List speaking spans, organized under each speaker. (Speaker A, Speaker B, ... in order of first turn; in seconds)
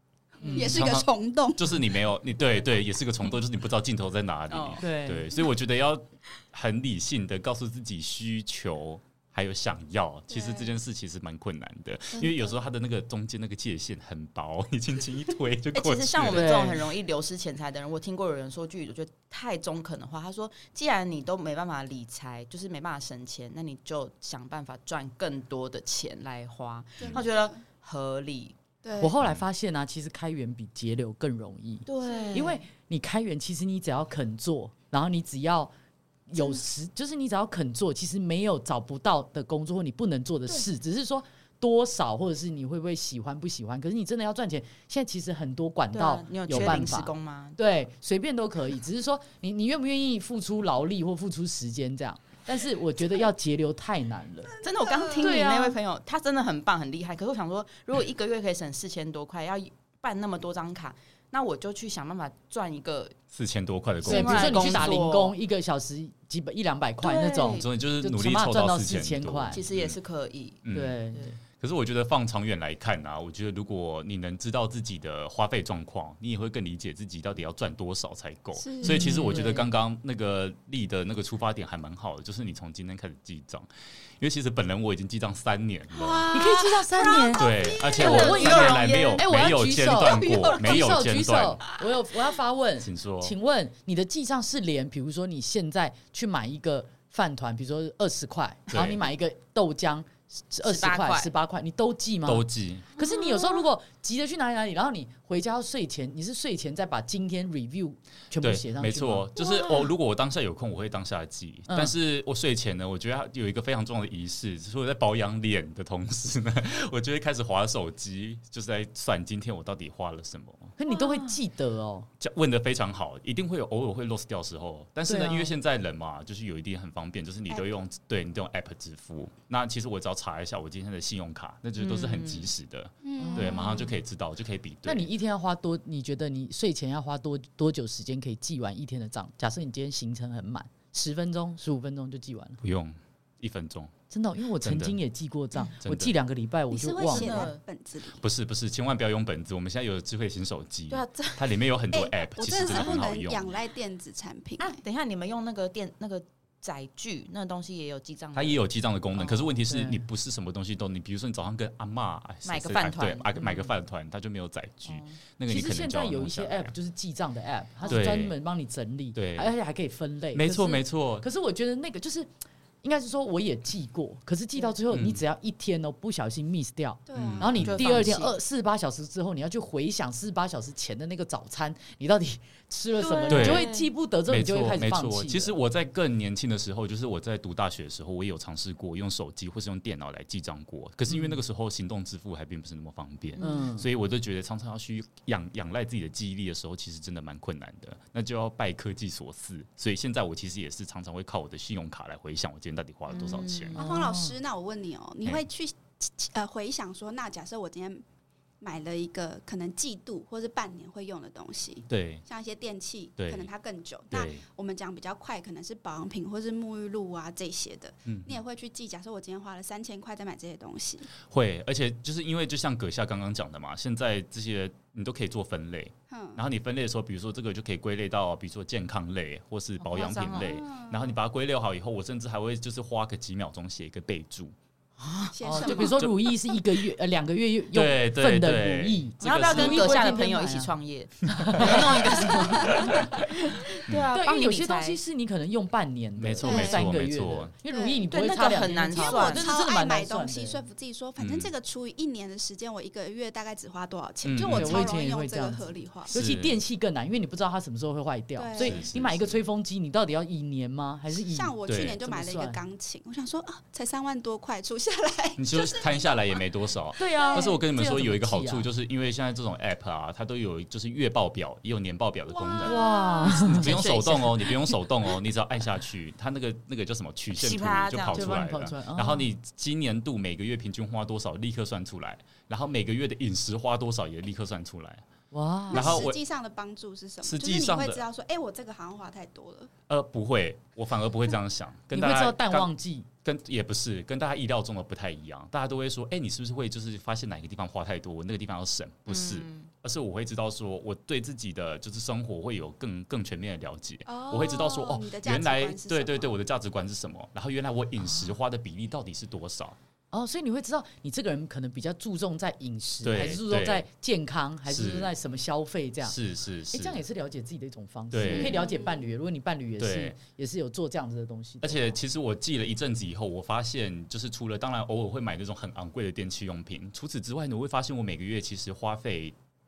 Speaker A: 0.4-0.8, 4.8-5.3, 16.3-16.8, 29.0-35.7, 36.3-54.5, 55.2-55.8, 64.0-69.6, 70.7-71.4, 78.8-79.7, 86.3-109.3, 111.7-111.9, 120.8-122.1, 125.1-125.5, 133.2-133.8, 134.8-142.6, 144.1-147.5, 159.7-160.0, 165.5-172.3, 172.8-185.5, 193.4-193.9, 203.8-204.4, 235.4-240.7, 241.3-242.0, 244.1-250.6, 254.5-262.6, 267.0-268.7, 272.6-273.7, 278.1-279.3, 285.3-286.1, 291.9-293.1, 308.1-308.3, 310.1-316.2, 316.7-322.0
Speaker B: 0.5-1.8, 10.3-10.7, 12.2-12.6, 27.0-27.6, 28.8-29.1, 32.1-32.4, 54.6-55.3, 78.6-79.2, 87.0-88.9, 90.1-90.8, 133.1-133.8, 146.7-148.2, 151.9-154.8, 177.1-177.7, 203.8-208.0, 208.6-221.1, 226.1-226.4, 230.5-231.1, 235.3-236.1, 242.6-242.8, 246.4-246.9, 247.7-248.1, 248.9-256.1, 258.4-258.9, 261.2-266.4, 267.2-267.6, 272.3-273.4, 285.7-289.7, 304.1-306.3, 318.3-319.0
Speaker C: 0.6-16.8, 63.3-65.1, 67.6-70.0, 70.6-71.0, 71.6-83.7, 84.2-86.3, 87.4-91.6, 92.8-93.3, 98.7-99.0, 102.3-102.9, 108.4-120.7, 122.2-135.1, 142.6-143.9, 144.6-145.0, 145.8-146.1, 148.2-153.5, 158.3-166.7, 167.9-168.4, 169.2-169.5, 170.3-171.3, 174.9-175.2, 177.2-178.1, 183.3-183.7, 184.3-203.8, 211.9-212.2, 213.2-213.5, 214.1-214.4, 218.1-218.4, 221.2-234.6, 235.7-236.2, 237.7-240.1, 241.4-243.3, 246.2-247.5, 251.2-251.5, 254.2-255.0, 256.1-256.6, 258.6-259.4, 261.7-262.0, 265.4-285.0, 285.7-286.2, 287.2-288.0, 289.9-292.7, 293.2-309.8, 313.0-313.9, 314.7-315.1, 316.1-317.0, 318.1-318.7, 319.8-320.2, 321.6-329.4
Speaker D: 4.5-4.8, 15.7-28.6, 31.9-32.6, 45.9-47.6, 54.6-63.2, 64.0-65.4, 67.0-67.7, 69.5-71.3, 85.9-89.3, 100.6-101.3, 103.0-103.5, 120.9-121.4, 131.8-132.5, 147.1-147.6, 150.9-151.6, 152.7-153.0, 154.6-158.6, 159.2-159.5, 162.4-163.7, 164.8-165.2, 177.6-178.3, 183.0-183.9, 193.4-193.7, 203.1-203.8, 229.8-230.6, 235.0-235.9, 239.2-245.0, 248.1-249.6, 273.4-274.6, 277.4-278.3, 299.1-299.7